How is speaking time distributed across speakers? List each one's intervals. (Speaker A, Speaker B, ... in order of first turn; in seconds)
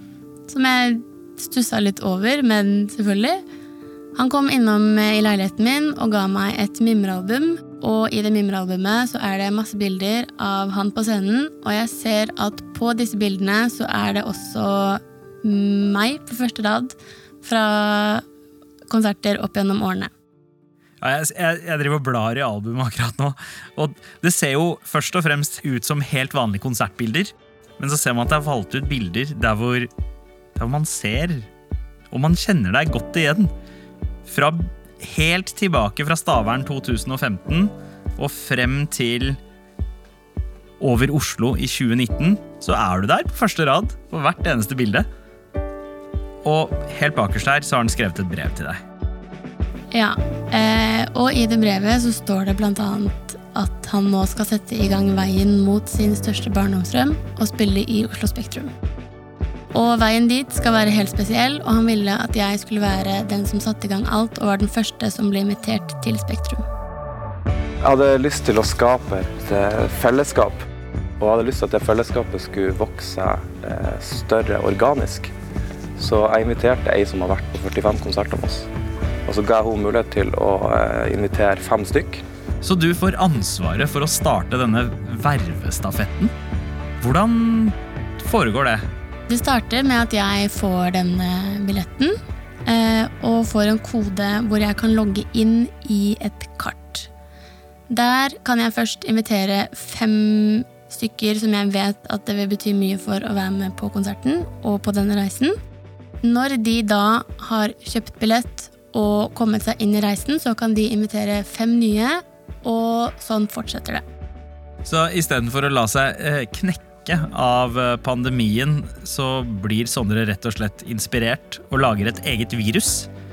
Speaker A: 0.5-3.4, 4.2-18.2, 18.9-20.1, 49.9-58.7, 59.7-66.6, 89.3-97.1, 97.9-105.5, 106.2-114.0
Speaker B: 21.0-29.9, 30.6-31.5, 32.1-33.5, 34.3-39.4, 40.8-45.0, 46.5-48.8, 82.6-86.3, 87.0-88.8, 114.8-123.1
Speaker C: 67.8-70.6, 71.2-75.3, 76.0-78.7, 79.3-82.2